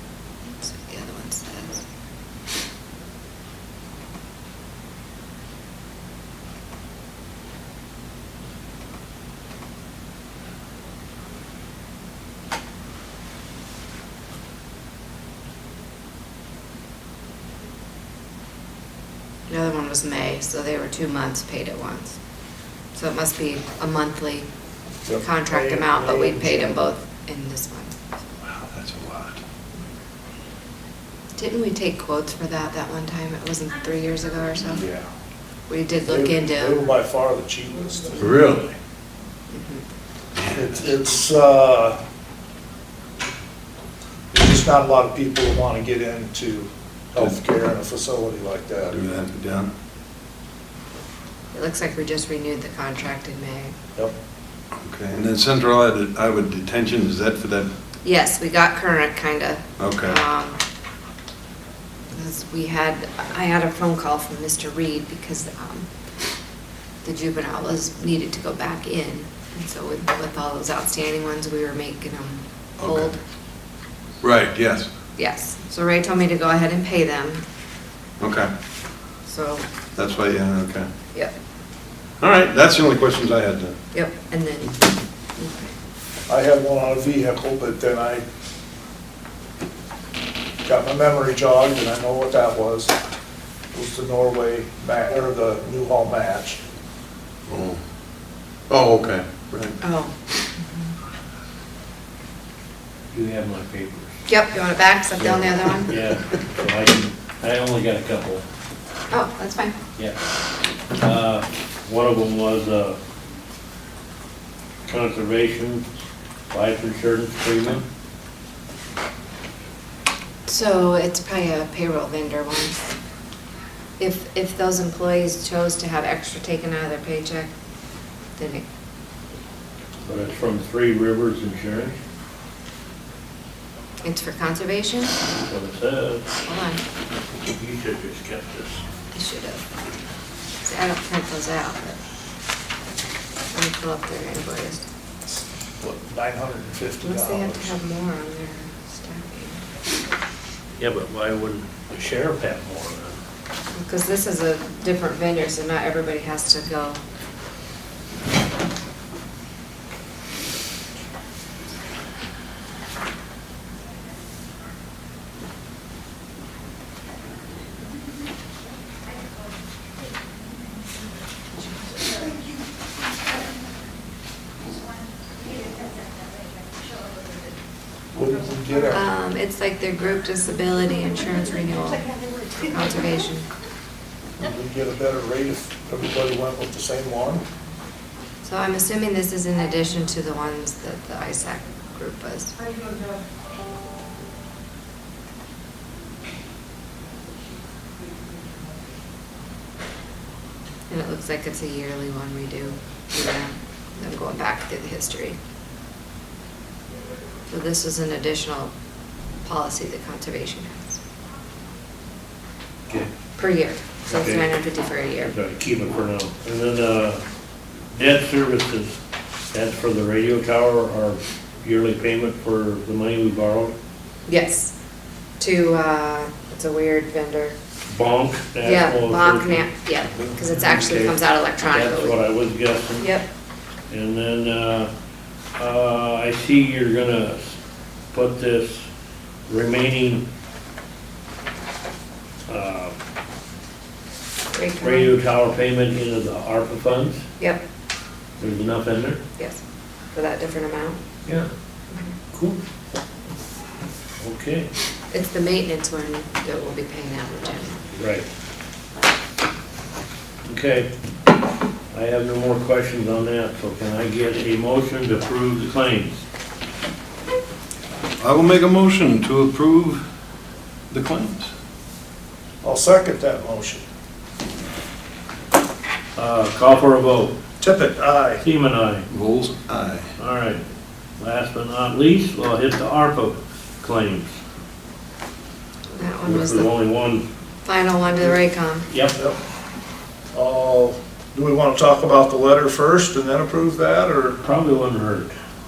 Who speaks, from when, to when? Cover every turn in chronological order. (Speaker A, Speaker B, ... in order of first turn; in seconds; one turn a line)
Speaker A: 0.4-1.9
Speaker A: 19.5-22.2
Speaker A: 22.9-24.5
Speaker B: 25.1-26.8
Speaker A: 25.2-28.0
Speaker C: 28.4-29.4
Speaker A: 31.4-34.8
Speaker B: 34.7-35.1
Speaker A: 35.7-36.8
Speaker B: 36.1-38.6
Speaker C: 38.2-38.7
Speaker A: 39.5-39.8
Speaker B: 40.5-42.0
Speaker B: 44.3-49.0
Speaker C: 48.9-49.7
Speaker A: 51.5-53.8
Speaker C: 54.8-57.7
Speaker A: 58.0-60.6
Speaker C: 59.8-60.2
Speaker A: 62.1-65.9
Speaker A: 67.0-73.2
Speaker C: 72.8-73.1
Speaker C: 74.2-74.9
Speaker A: 75.2-77.4
Speaker C: 78.2-78.5
Speaker A: 79.3-79.7
Speaker C: 80.0-80.9
Speaker C: 82.2-83.8
Speaker A: 83.9-85.7
Speaker B: 86.3-88.2
Speaker B: 90.7-93.0
Speaker B: 93.7-96.6
Speaker C: 97.5-97.8
Speaker C: 98.7-99.8
Speaker A: 99.8-100.2
Speaker D: 103.1-104.1
Speaker A: 104.3-106.0
Speaker D: 105.2-108.4
Speaker A: 109.1-109.8
Speaker D: 111.0-113.0
Speaker D: 114.8-115.9
Speaker D: 116.5-117.8
Speaker A: 120.5-122.8
Speaker A: 124.0-127.5
Speaker A: 128.4-128.7
Speaker D: 130.1-132.0
Speaker A: 134.0-135.2
Speaker D: 135.4-136.3
Speaker A: 136.4-136.8
Speaker D: 137.5-138.8
Speaker A: 139.1-139.6
Speaker A: 140.6-142.0
Speaker A: 143.5-144.8
Speaker B: 145.3-147.7
Speaker A: 147.0-149.6
Speaker D: 150.8-153.2
Speaker A: 153.7-157.0
Speaker B: 178.1-179.0
Speaker A: 178.9-183.5
Speaker B: 184.4-187.4
Speaker A: 188.4-192.6
Speaker A: 200.9-205.4
Speaker A: 207.5-208.7
Speaker A: 209.4-211.0
Speaker A: 213.4-215.3
Speaker D: 214.1-214.5
Speaker D: 215.2-217.2
Speaker D: 217.9-219.0
Speaker D: 219.5-223.7
Speaker A: 224.3-224.7
Speaker A: 225.4-227.6
Speaker D: 227.9-229.7
Speaker A: 228.6-232.2
Speaker D: 230.3-231.1
Speaker D: 231.7-233.1
Speaker A: 233.0-233.2
Speaker D: 233.9-234.9
Speaker D: 235.6-237.6
Speaker D: 238.1-238.9
Speaker D: 239.5-240.2
Speaker D: 242.5-243.0
Speaker A: 244.5-245.1
Speaker D: 244.8-247.2
Speaker D: 248.4-249.2
Speaker A: 250.1-251.0
Speaker D: 252.3-252.6
Speaker D: 254.2-254.7
Speaker A: 255.1-257.8
Speaker D: 257.9-258.3
Speaker D: 260.5-260.9
Speaker D: 261.9-266.2
Speaker C: 268.2-270.0
Speaker C: 270.9-271.5
Speaker B: 272.6-273.8
Speaker D: 276.2-277.3
Speaker B: 277.6-278.4
Speaker D: 278.4-279.1
Speaker C: 279.1-280.1
Speaker D: 280.2-280.6
Speaker D: 281.2-284.4
Speaker A: 285.9-286.7
Speaker D: 286.2-287.3
Speaker A: 287.6-288.9
Speaker D: 288.9-289.1
Speaker B: 289.1-289.4
Speaker B: 290.3-294.4
Speaker D: 294.4-295.4